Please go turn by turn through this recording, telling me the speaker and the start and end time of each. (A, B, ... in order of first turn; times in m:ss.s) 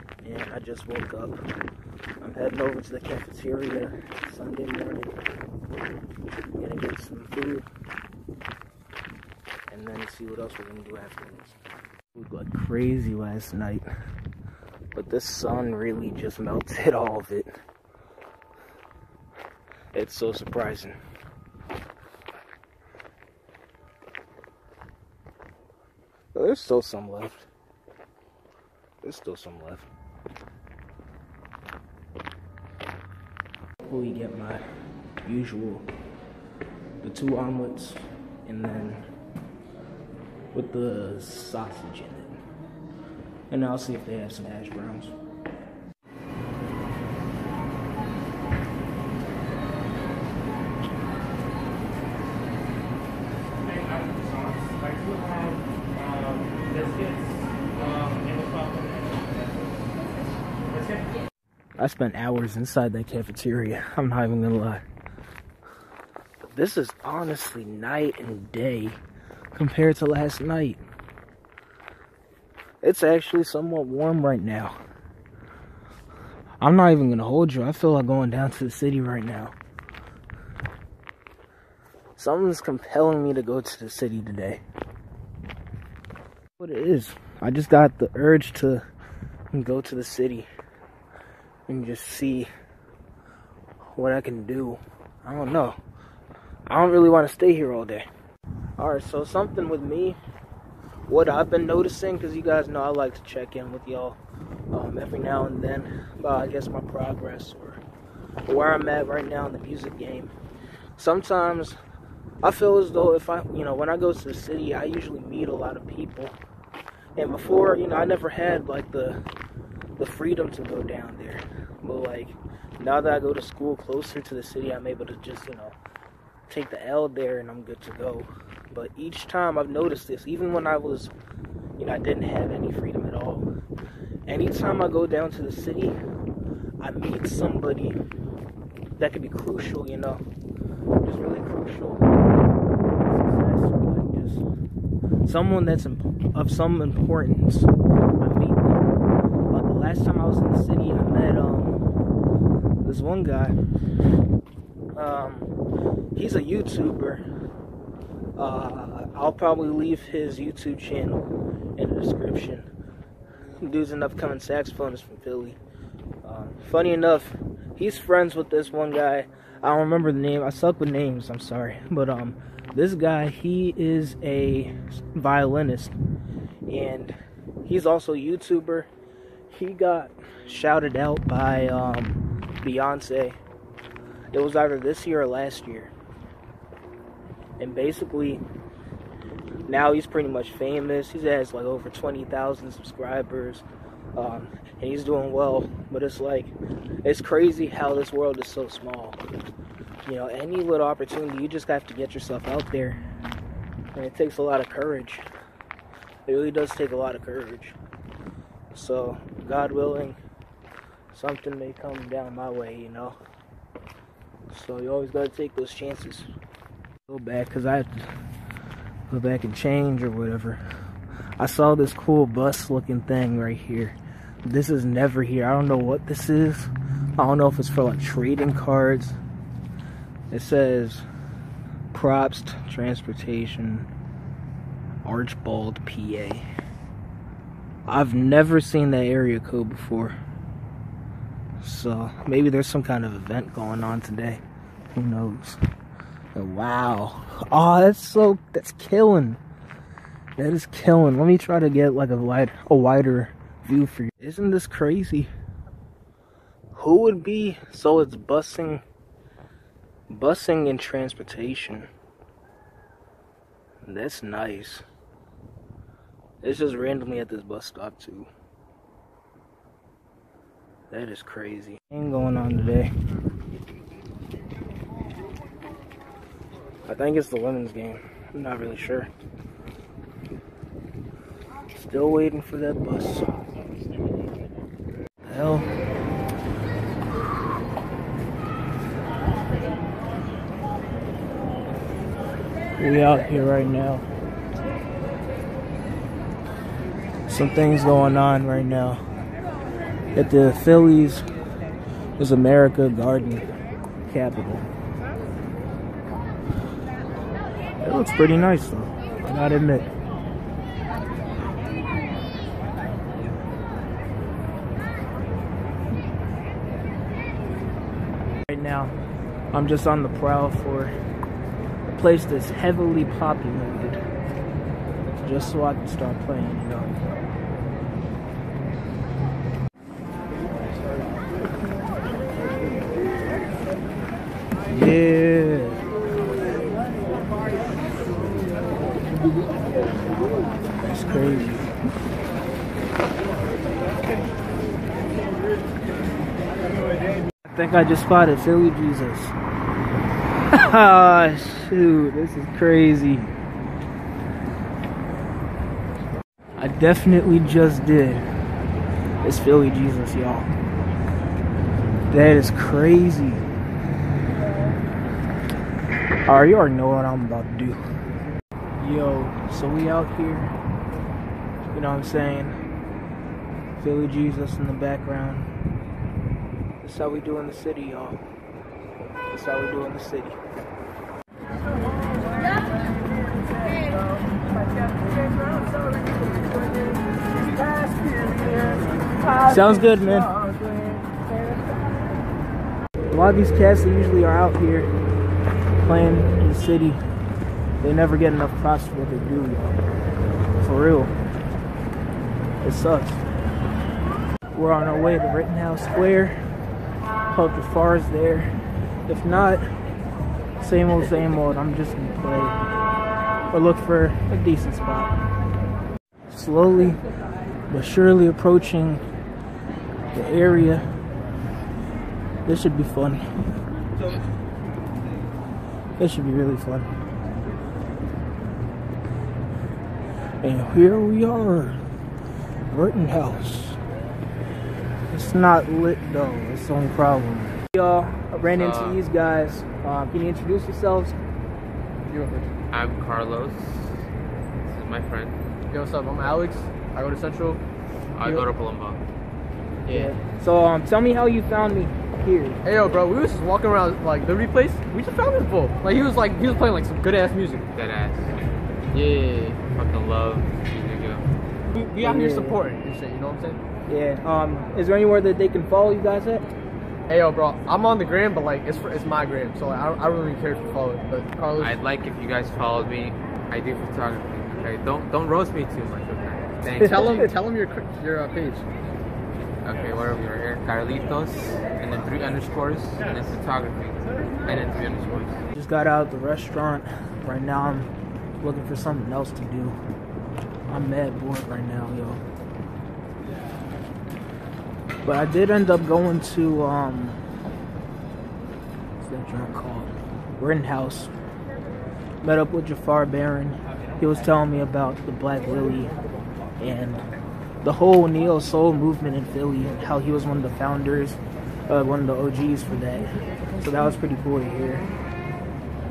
0:00.2-0:01.4 A
0:02.2-0:05.2 A
0:06.5-0:07.6 A
0:09.7-0:11.5 A
0:12.1-0:13.9 A
0:14.9-0:17.5 A
0:19.9-0:21.0 A
0:26.3-0:27.5 A
0:29.0-0:29.9 A
0:33.8-0:34.6 A
0:35.2-0:35.8 A
0:37.0-0:39.0 A
0:40.5-0:42.4 A
0:43.5-0:45.1 A
0:54.8-0:57.1 B
0:57.7-0:58.9 B
1:01.8-1:04.8 A
1:06.5-1:09.0 A
1:09.5-1:10.8 A
1:12.8-1:14.8 A
1:16.6-1:19.5 A
1:22.2-1:24.6 A
1:26.6-1:28.8 A
1:29.5-1:30.5 A
1:31.7-1:32.5 A
1:33.8-1:35.8 A
1:36.7-1:38.1 A
1:38.8-1:40.2 A
1:41.1-1:44.2 A
1:44.7-1:47.8 A
1:48.5-1:50.3 A
1:51.0-1:51.8 A
1:52.4-1:56.4 A
1:57.2-1:59.2 A
2:00.0-2:05.8 A
2:06.5-2:11.1 A
2:11.8-2:13.5 A
2:14.3-2:16.0 A
2:16.8-2:18.0 A
2:19.0-2:20.2 A
2:21.0-2:22.1 A
2:23.0-2:24.4 A
2:25.2-2:31.8 A
2:32.8-2:33.6 A
2:34.9-2:35.5 A
2:36.1-2:37.2 A
2:38.4-2:42.7 A
2:43.6-2:45.6 A
2:46.2-2:56.0 A
2:56.7-2:58.9 A
2:59.5-3:03.4 A
3:04.3-3:05.9 A
3:07.6-3:08.4 A
3:09.7-3:19.2 A
3:20.0-3:23.0 A
3:23.9-3:25.3 A
3:26.2-3:27.8 A
3:28.7-3:30.2 A
3:31.1-3:33.2 A
3:34.5-3:36.3 A
3:37.1-3:38.1 A
3:39.1-3:40.6 A
3:41.4-3:49.2 A
3:50.3-3:51.0 A
3:51.9-3:53.9 A
3:55.0-3:56.4 A
3:57.9-4:00.2 A
4:01.6-4:04.4 A
4:04.9-4:05.6 A
4:06.3-4:09.4 A
4:10.4-4:15.3 A
4:16.7-4:18.8 A
4:20.1-4:21.9 A
4:23.8-4:24.8 A
4:26.4-4:28.3 A
4:30.9-4:32.9 A
4:36.9-4:39.1 A
4:41.7-4:43.2 A
4:45.2-4:45.7 A
4:52.8-4:54.0 A
4:57.3-4:59.0 A
5:00.1-5:01.2 A
5:02.2-5:03.4 A
5:04.0-5:04.6 A
5:07.8-5:09.9 A
5:18.5-5:18.9 A
5:19.5-5:20.9 A
5:21.9-5:24.0 A
5:25.2-5:27.0 A
5:34.7-5:35.8 A
5:40.8-5:41.7 A
5:47.4-5:49.3 A
5:50.5-5:53.3 A
5:56.6-5:58.2 A
5:59.2-6:00.5 A
6:02.1-6:03.4 A
6:06.3-6:07.8 A
6:08.8-6:10.5 A
6:11.7-6:12.6 A
6:13.8-6:15.5 A
6:16.8-6:18.2 A
6:19.3-6:20.4 A
6:29.4-6:30.4 A
6:33.1-6:34.9 A
6:35.8-6:37.0 A
6:37.8-6:39.8 A
6:40.6-6:41.1 A
6:42.6-6:43.2 A
6:44.5-6:46.4 A
6:47.3-6:48.5 A
6:49.1-6:49.7 A
6:50.6-6:52.6 A
6:53.5-6:55.1 A
6:56.3-6:57.0 A
6:57.7-6:59.0 A
7:00.1-7:00.8 A
7:02.4-7:03.2 A
7:06.0-7:06.9 A
7:10.4-7:11.8 A
7:12.7-7:13.8 A
7:15.1-7:21.2 A
7:18.5-7:19.0 B
7:22.1-7:22.5 C
7:22.7-7:24.0 B
7:24.6-7:25.3 B
7:25.7-7:27.6 C
7:28.1-7:29.0 B
7:29.9-7:30.2 C
7:29.9-7:32.6 A
7:32.6-7:37.7 C
7:37.7-7:38.3 B
7:38.9-7:41.2 B
7:41.7-7:43.6 C
7:42.0-7:42.6 A
7:43.9-7:46.4 A
7:47.1-7:51.8 C
7:51.6-7:57.3 B
7:56.8-7:57.1 A
7:56.8-7:58.6 C
7:59.6-8:05.4 B
8:05.5-8:07.9 A
8:08.4-8:09.8 A
8:10.7-8:12.2 A
8:15.0-8:17.2 A
8:19.0-8:21.1 A
8:22.2-8:25.9 A
8:26.6-8:27.0 A
8:27.6-8:34.9 A